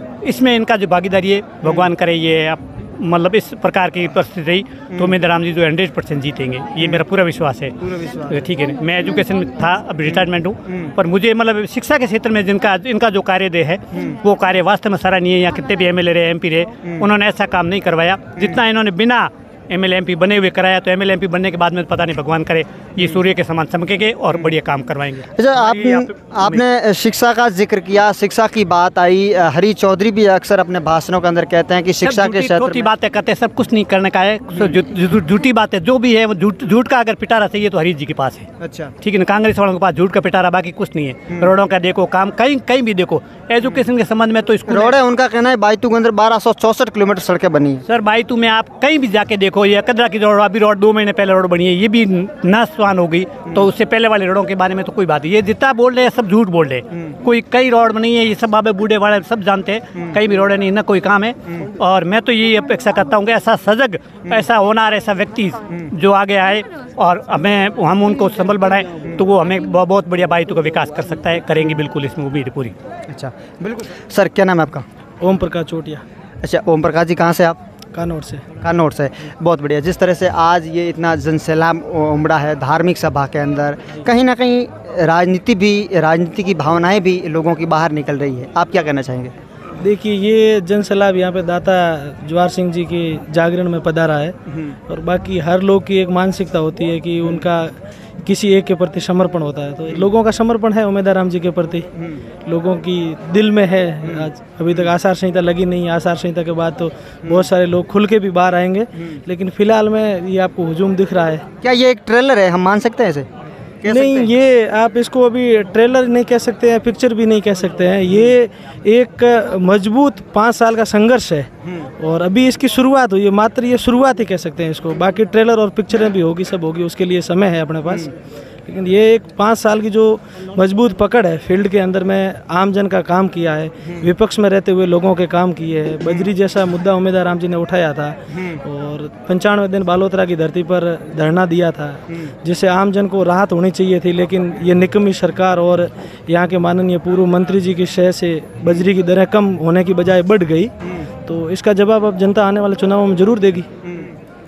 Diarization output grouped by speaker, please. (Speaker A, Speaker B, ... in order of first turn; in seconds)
Speaker A: 0.2-7.8, 8.3-26.6, 32.0-38.5, 39.0-45.0, 47.9-72.7
Speaker B: 1.6-1.9, 7.8-8.5, 10.1-10.9, 13.9-14.2, 25.4-32.9, 38.6-38.9, 44.7-47.8, 73.1-74.8, 76.4-77.6, 78.6-89.3, 111.6-113.3, 113.8-114.3, 118.1-118.3, 138.3-138.6, 153.8-154.1
Speaker C: 75.2-76.0, 77.9-78.5, 89.8-94.4, 94.9-101.9, 102.4-111.5, 113.8-128.1, 128.7-150.7, 151.2-153.7